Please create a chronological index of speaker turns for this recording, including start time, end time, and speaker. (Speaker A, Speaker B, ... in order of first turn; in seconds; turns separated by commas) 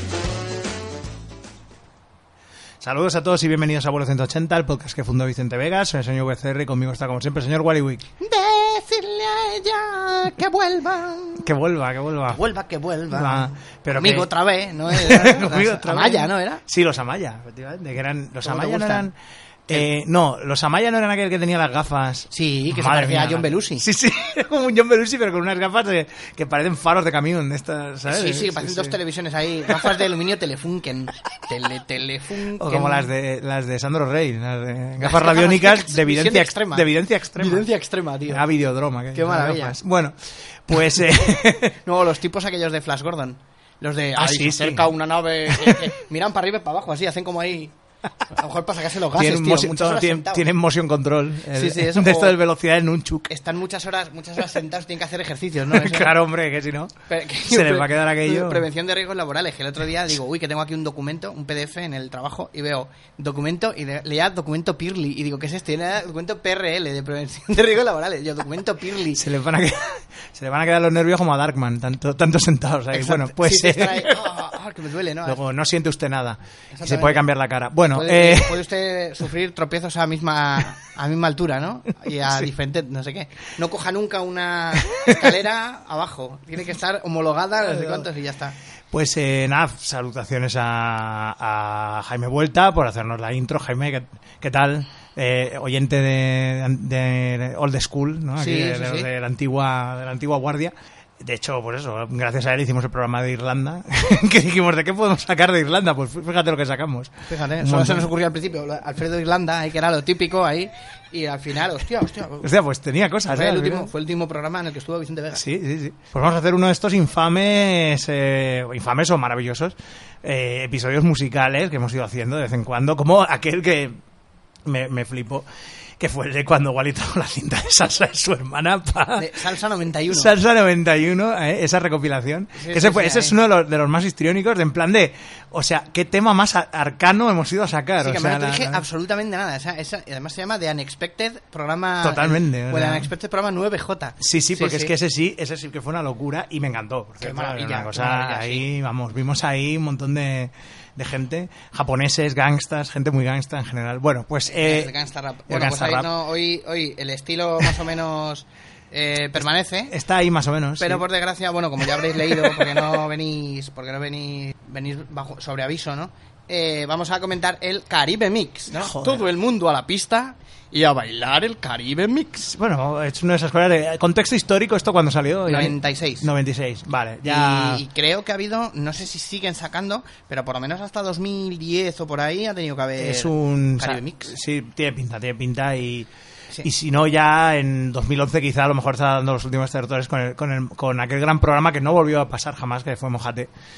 Speaker A: 2.8-8.0, Speaker B: 8.2-11.5, Speaker A: 11.4-12.4, Speaker B: 12.3-16.6, Speaker A: 13.1-14.3, Speaker A: 14.9-19.1, Speaker B: 18.4-19.1, Speaker A: 19.7-28.9, Speaker B: 22.3-23.8, Speaker B: 28.1-33.1, Speaker A: 29.7-30.0, Speaker A: 32.6-37.7, Speaker B: 35.0-38.4, Speaker A: 38.3-41.8, Speaker B: 39.1-39.8, Speaker B: 41.8-47.7, Speaker A: 44.2-44.9, Speaker A: 45.5-45.9, Speaker B: 48.3-50.5, Speaker A: 49.1-53.3, Speaker B: 51.5-52.4, Speaker B: 53.3-56.1, Speaker A: 55.7-56.9, Speaker B: 57.1-69.2, Speaker A: 57.5-58.6, Speaker A: 69.1-74.3, Speaker B: 72.9-75.4, Speaker A: 75.2-78.6, Speaker B: 76.7-77.2, Speaker B: 77.9-88.5, Speaker A: 84.9-85.3, Speaker A: 87.6-88.1, Speaker A: 88.9-108.1, Speaker B: 98.4-99.1, Speaker B: 107.3-112.5, Speaker A: 112.4-113.9, Speaker B: 113.3-115.4, Speaker A: 115.3-124.0, Speaker A: 124.7-125.5, Speaker A: 126.0-129.3, Speaker B: 129.2-130.3, Speaker A: 130.1-138.8, Speaker B: 132.6-133.3, Speaker B: 138.0-144.9, Speaker A: 142.0-143.1, Speaker A: 144.2-154.9, Speaker B: 147.2-148.7, Speaker B: 154.5-159.9, Speaker A: 155.5-156.1, Speaker A: 159.9-161.1, Speaker B: 160.8-172.5, Speaker A: 161.9-162.8, Speaker A: 168.7-169.2, Speaker A: 172.5-177.8, Speaker B: 175.5-176.3, Speaker B: 177.2-184.3, Speaker A: 183.0-186.1, Speaker A: 186.6-193.5